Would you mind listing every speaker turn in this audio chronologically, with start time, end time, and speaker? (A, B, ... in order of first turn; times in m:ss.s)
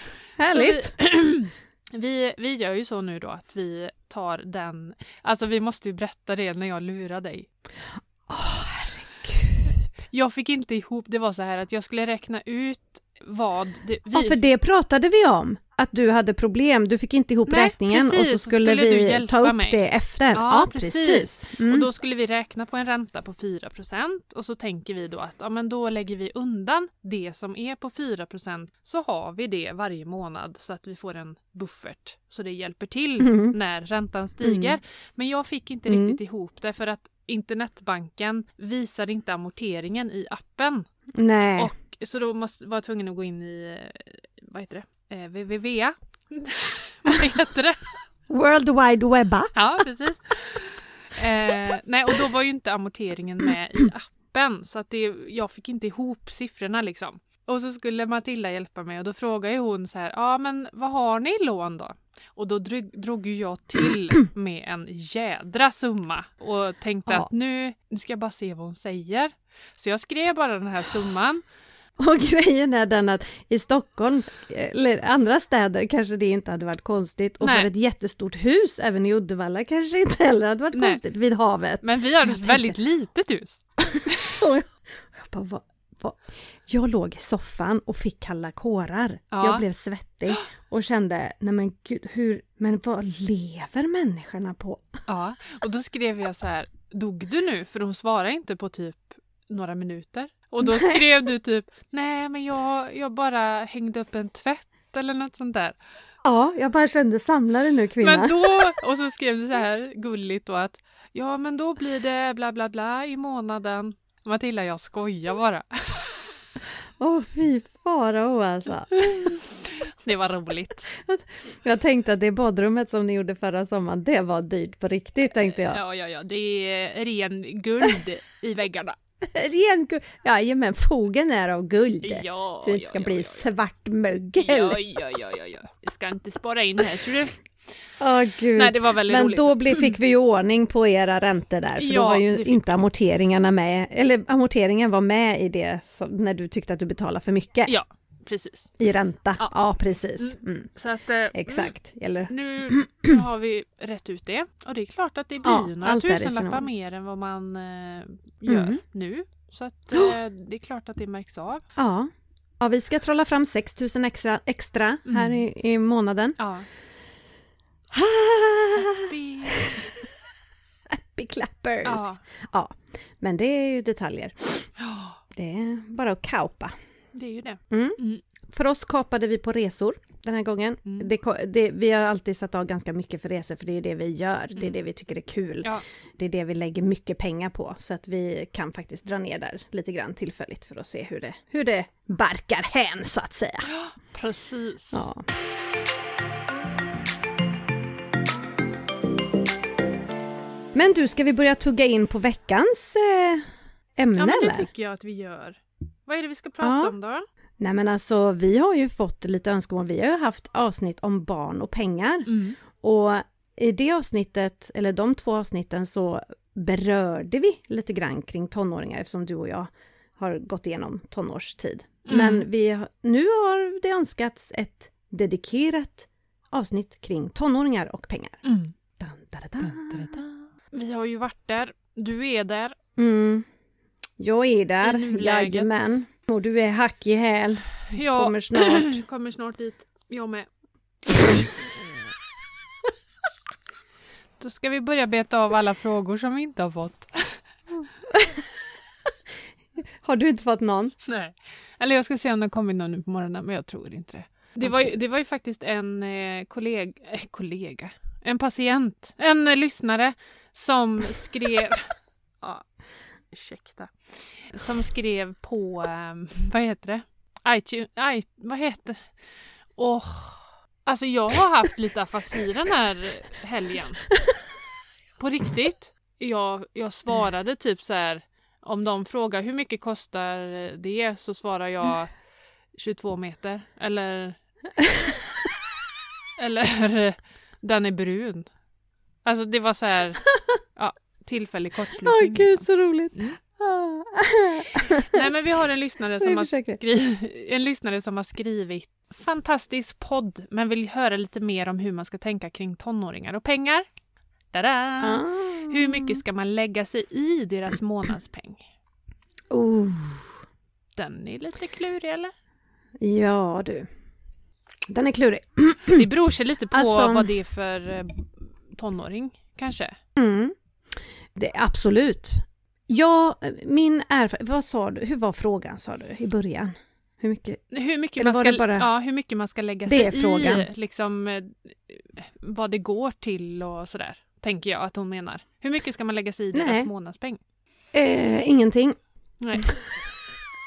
0:00.3-0:01.0 A
0:00.5-0:07.5 B
0:08.3-0:09.7 A
0:10.1-0:14.4 B
0:14.1-0:21.9 A
0:17.5-0:19.8 B
0:20.3-0:40.9 B
0:33.2-0:33.5 A
0:34.4-0:34.8 A
0:35.9-0:36.2 A
0:41.1-0:41.7 A
0:41.6-0:47.9 B
0:48.3-0:49.6 A
0:49.5-1:11.4 B
1:12.0-1:22.7 A
1:17.4-1:17.7 B
1:20.7-1:21.0 B
1:21.8-1:24.1 B
1:24.0-1:35.0 A
1:29.3-1:29.6 B
1:35.1-1:45.8 B
1:40.6-1:41.0 A
1:46.2-1:48.7 A
1:48.0-1:56.3 B
1:57.0-1:59.3 A
1:59.0-2:00.9 B
2:00.9-2:05.8 A
2:05.4-2:09.0 B
2:09.3-2:14.8 A
2:12.0-2:13.5 B
2:14.4-2:17.4 B
2:18.0-2:27.7 A
2:18.5-2:19.9 B
2:21.8-2:22.8 B
2:27.6-2:28.7 B
2:28.8-2:30.7 A
2:30.2-2:31.7 B
2:31.3-2:33.2 A
2:32.3-2:41.6 B
2:35.4-2:36.7 A
2:38.5-2:38.8 A
2:41.8-2:46.4 A
2:45.0-2:45.4 B
2:46.4-2:46.7 B
2:47.9-2:50.0 A
2:48.8-2:49.9 B
2:50.9-2:54.7 A
2:51.8-2:52.2 B
2:54.8-2:55.2 B
2:55.3-2:56.7 A
2:57.1-2:58.2 B
2:57.7-3:13.7 A
3:13.6-3:15.0 B
3:14.9-3:15.2 A
3:20.7-3:24.7 A
3:24.2-3:27.2 B
3:26.6-3:26.9 A
3:27.6-3:48.4 A
3:32.2-3:32.6 B
3:42.0-3:42.5 B
3:48.4-3:48.7 B
3:49.0-3:50.2 A
3:49.6-3:52.8 B
3:53.0-3:53.4 A
3:54.2-3:59.0 A
3:54.8-3:55.8 B
3:57.9-4:00.5 B
4:04.4-4:07.4 B
4:10.0-4:10.9 A
4:11.0-4:22.6 B
4:14.6-4:14.9 A
4:23.3-4:29.2 B
4:29.8-4:34.1 B
4:35.2-4:42.2 B
4:42.7-4:44.4 B
4:46.4-4:48.5 B
4:49.2-4:53.4 B
4:52.0-4:55.2 A
4:55.0-5:03.8 B
4:56.2-4:56.8 A
5:04.5-5:08.7 B
5:05.0-5:06.2 A
5:09.5-5:10.4 A
5:10.9-5:12.3 B
5:13.0-5:13.9 A
5:14.9-5:16.1 A
5:15.9-5:19.9 B
5:16.7-5:17.3 A
5:20.2-5:20.5 A
5:21.3-5:27.6 A
5:27.7-5:37.4 B
5:28.2-5:28.9 A
5:29.8-5:30.7 A
5:36.5-5:36.9 A
5:37.9-5:39.0 A
5:39.4-5:39.7 B